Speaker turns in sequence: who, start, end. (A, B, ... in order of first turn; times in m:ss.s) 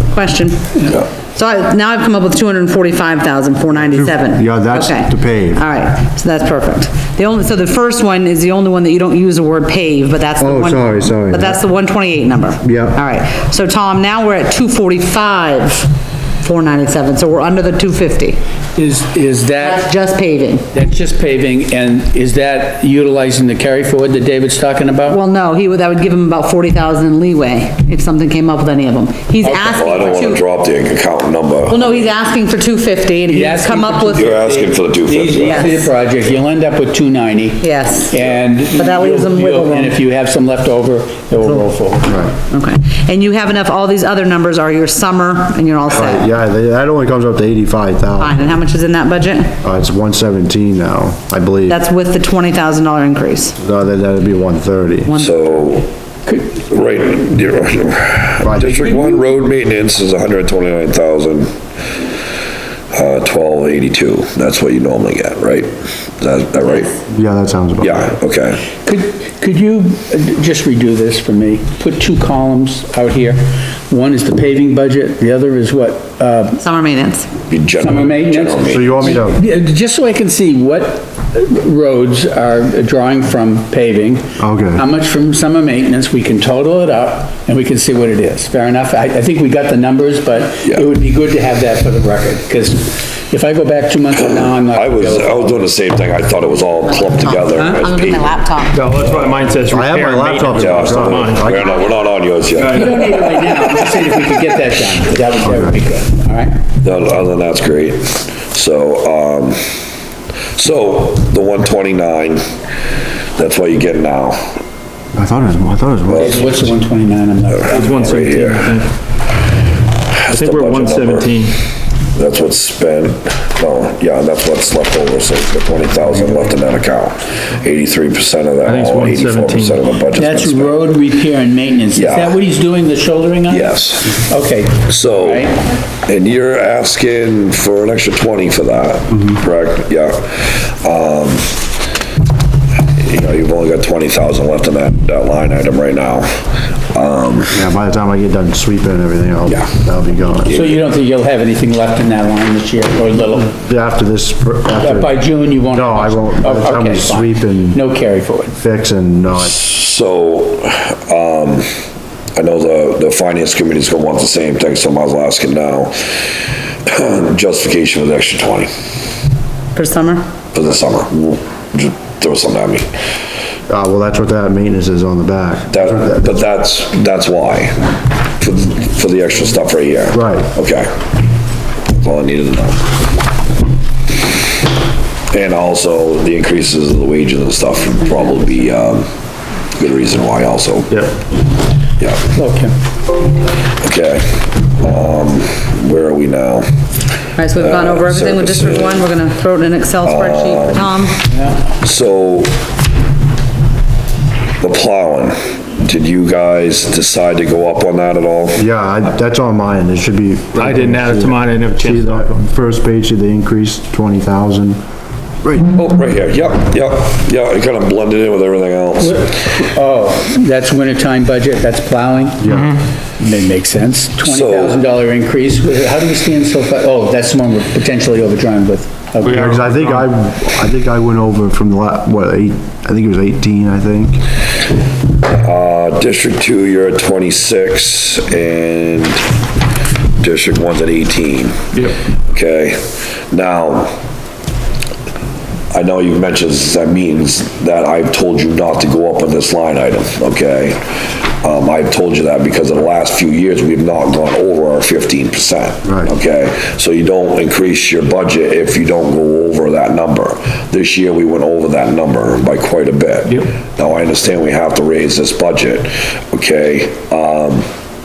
0:00.1-0:00.7 A
0:01.3-0:15.9 A
0:03.9-0:05.6 B
0:10.4-0:11.6 B
0:12.6-0:13.0 B
0:16.4-0:18.4 A
0:18.7-0:19.9 C
0:19.6-0:20.7 A
0:20.7-0:25.2 C
0:25.1-0:30.4 A
0:29.4-0:32.1 D
0:31.7-0:34.4 A
0:33.3-0:42.2 C
0:34.1-0:35.6 D
0:35.4-0:35.8 A
0:37.6-0:38.2 A
0:38.8-0:39.9 A
0:42.0-0:42.3 B
0:42.5-0:46.3 A
0:45.9-0:48.6 B
0:48.2-0:49.5 A
0:49.6-0:51.8 B
0:51.7-0:53.6 A
0:53.6-0:55.2 B
0:55.0-0:55.4 A
0:55.2-0:55.9 D
0:56.6-1:01.5 D
0:58.4-0:58.8 B
1:02.9-1:06.9 D
1:07.1-1:08.1 B
1:07.8-1:08.6 D
1:08.8-1:16.6 C
1:16.6-1:17.3 A
1:17.5-1:19.3 D
1:17.8-1:35.6 C
1:18.7-1:19.4 B
1:24.4-1:24.8 B
1:34.2-1:38.4 D
1:37.0-1:38.8 A
1:38.7-1:41.8 E
1:39.7-1:41.8 B
1:40.5-1:43.1 D
1:42.6-1:43.2 E
1:42.6-1:46.6 C
1:45.4-1:45.7 B
1:46.8-1:49.6 D
1:50.6-1:52.4 D
1:53.4-1:54.4 D
1:55.1-1:56.7 B
1:56.1-1:56.6 D
1:56.2-1:58.4 C
1:57.5-1:58.7 D
1:57.7-1:58.9 E
2:00.1-2:01.4 D
2:00.3-2:01.6 E
2:02.1-2:10.8 D
2:08.6-2:09.8 E
2:10.1-2:15.6 C
2:11.9-2:12.4 D
2:13.5-2:14.2 D
2:14.9-2:15.5 D
2:16.0-2:21.5 D
2:19.1-2:19.4 B
2:23.0-2:26.3 D
2:26.9-2:27.6 D
2:27.5-2:30.5 B
2:29.5-2:29.7 D
2:30.3-2:30.8 D
2:30.5-2:33.5 C
2:33.5-2:37.8 B
2:34.8-2:38.5 C
2:38.6-2:39.6 B
2:39.3-2:41.7 D
2:42.4-2:46.0 D
2:46.9-2:48.7 D
2:49.7-2:50.2 A
2:50.5-2:52.9 D
2:53.7-2:56.4 B
2:55.7-2:57.8 D
2:58.4-3:00.9 D
3:00.1-3:00.5 B
3:01.9-3:02.9 D
3:05.3-3:09.0 D
3:09.8-3:11.0 D
3:12.3-3:12.7 C
3:13.8-3:14.2 D
3:14.8-3:16.7 D
3:17.4-3:21.2 A
3:17.5-3:19.1 D
3:20.0-3:21.0 D
3:21.3-3:21.6 C
3:21.8-3:22.5 D
3:24.6-3:28.6 D
3:28.5-3:34.8 B
3:30.6-3:32.4 E
3:35.4-3:35.7 B
3:35.7-3:39.3 D
3:39.0-3:42.5 C
3:42.4-3:42.8 B
3:42.4-3:42.8 E
3:43.2-3:49.5 C
3:44.2-3:44.8 D
3:49.2-3:50.1 E
3:49.2-3:54.2 B
3:55.2-3:59.2 D
4:00.2-4:01.6 D
4:02.3-4:03.9 D
4:05.7-4:10.8 D
4:11.4-4:27.6 D
4:15.8-4:16.1 B